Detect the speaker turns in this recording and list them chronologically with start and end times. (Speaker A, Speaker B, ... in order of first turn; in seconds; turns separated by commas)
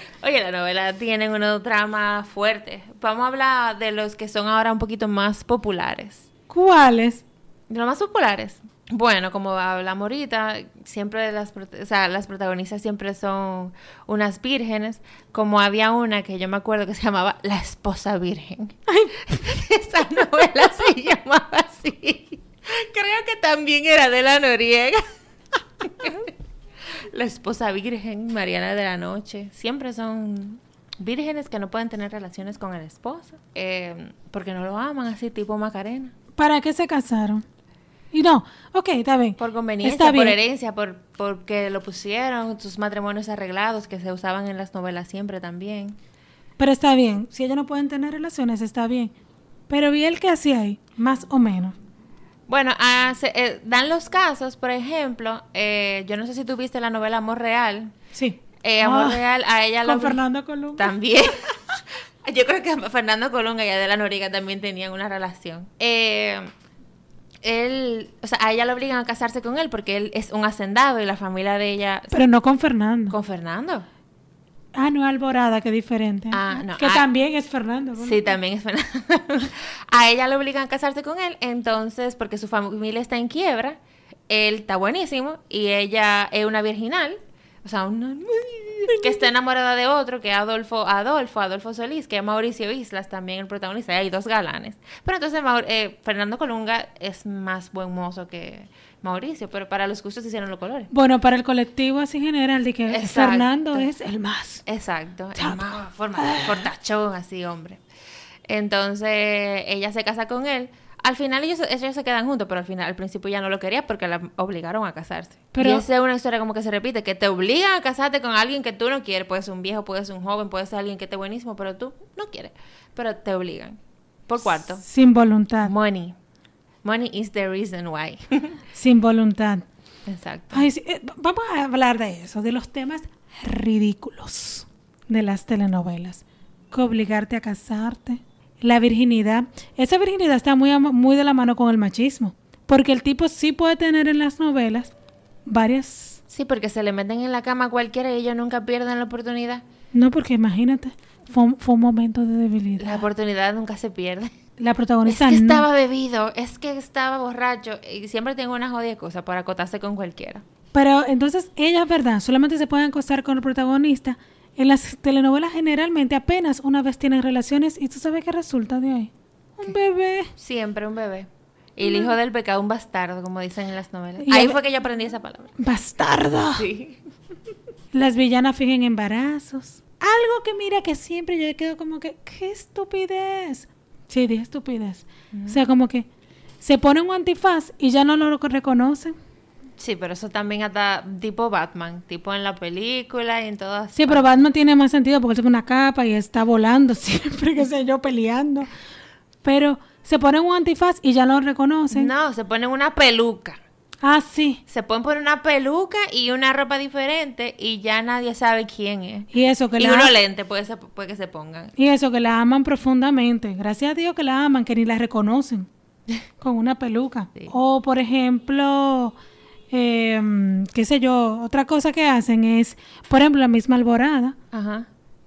Speaker A: 0.2-6.3, Speaker B: 6.5-7.2, Speaker A: 7.7-25.0, Speaker B: 18.9-19.2, Speaker A: 25.8-26.3, Speaker A: 27.0-36.1, Speaker B: 36.4-37.4, Speaker B: 38.1-40.4, Speaker A: 39.4-46.0, Speaker B: 46.6-49.1, Speaker B: 49.7-51.8, Speaker A: 52.5-57.9, Speaker B: 58.1-59.2, Speaker A: 58.6-60.2, Speaker B: 59.9-60.9, Speaker A: 60.8-66.5, Speaker A: 67.4-72.1, Speaker B: 72.1-73.2, Speaker A: 73.1-73.9, Speaker B: 74.8-78.3, Speaker A: 76.3-77.1, Speaker A: 78.0-100.9, Speaker B: 100.9-104.6, Speaker A: 102.9-103.9, Speaker A: 104.7-107.8, Speaker B: 105.4-106.7, Speaker A: 108.5-124.8, Speaker B: 115.5-115.8, Speaker B: 124.8-125.7, Speaker A: 125.6-126.2, Speaker A: 126.8-128.6, Speaker B: 128.7-129.7, Speaker A: 130.1-130.7, Speaker B: 130.5-144.9, Speaker B: 145.5-146.2, Speaker A: 146.3-149.6, Speaker B: 149.9-153.1, Speaker A: 152.8-154.3, Speaker B: 154.6-155.7, Speaker A: 155.1-160.4, Speaker B: 160.7-170.3, Speaker A: 170.4-175.5, Speaker B: 171.8-172.1, Speaker B: 174.2-174.6, Speaker B: 175.6-176.7, Speaker A: 176.6-177.0, Speaker B: 177.9-186.1, Speaker A: 185.3-185.6, Speaker B: 186.6-189.2, Speaker A: 189.8-194.3, Speaker B: 193.9-198.7, Speaker B: 199.4-202.1, Speaker A: 201.9-203.6, Speaker B: 204.0-204.6, Speaker A: 204.7-211.7, Speaker B: 209.3-210.2, Speaker B: 211.8-215.7, Speaker B: 216.4-219.2, Speaker B: 219.7-224.4, Speaker A: 224.5-224.9